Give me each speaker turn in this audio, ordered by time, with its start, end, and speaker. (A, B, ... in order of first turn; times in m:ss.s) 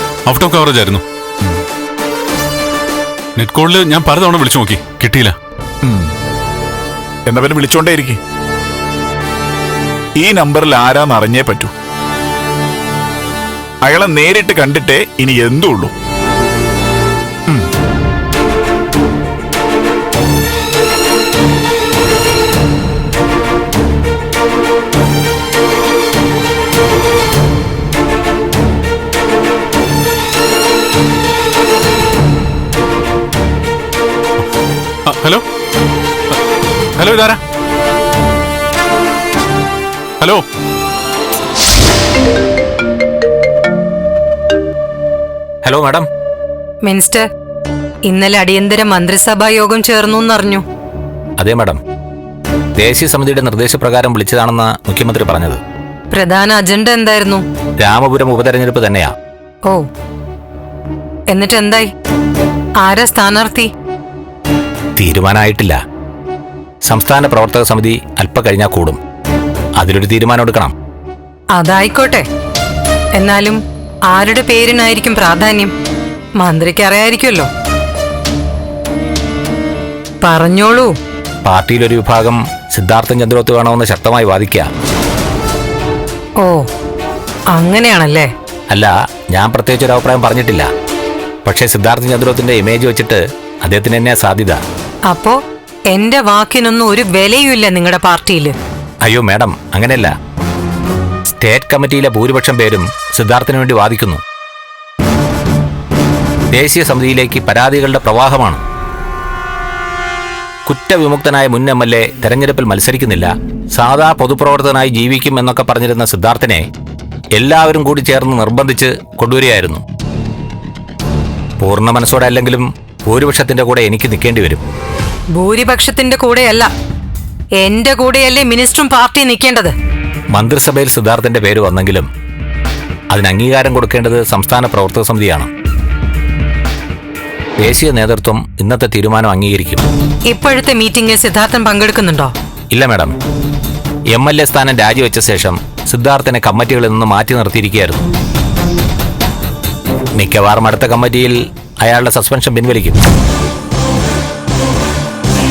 0:00.3-0:01.0 A
0:03.4-0:05.3 A
0:07.3-0:08.2 B
0:10.2-0:11.7 B
0:13.8-0:15.9 B
0:35.0-0:35.4 A
0:37.0-0:37.4 A
0:45.6-0:46.0 C
0:46.8-0:47.2 D
0:48.1-0:50.6 D
0:51.4-0:51.8 C
0:52.8-0:55.6 C
0:56.1-0:57.4 D
0:57.8-0:59.1 C
1:01.3-1:01.9 D
1:02.8-1:03.7 D
1:05.0-1:05.8 C
1:06.8-1:09.0 C
1:09.8-1:10.7 C
1:11.6-1:12.2 D
1:13.2-1:13.6 D
1:14.1-1:15.7 D
1:16.4-1:17.5 D
1:20.2-1:20.9 D
1:21.4-1:24.7 C
1:27.5-1:28.3 D
1:28.7-1:30.7 C
1:31.4-1:34.6 C
1:35.1-1:35.4 D
1:35.9-1:38.5 D
1:39.0-1:40.1 C
1:41.4-1:44.2 C
1:46.5-1:48.6 C
1:50.6-1:56.6 C
1:57.3-1:59.8 C
2:01.6-2:04.6 C
2:05.4-2:06.7 D
2:07.6-2:09.7 D
2:10.3-2:12.1 C
2:13.1-2:15.5 C
2:17.6-2:19.8 C
2:20.3-2:22.3 D
2:22.7-2:23.2 C
2:24.1-2:28.0 C
2:30.2-2:33.0 C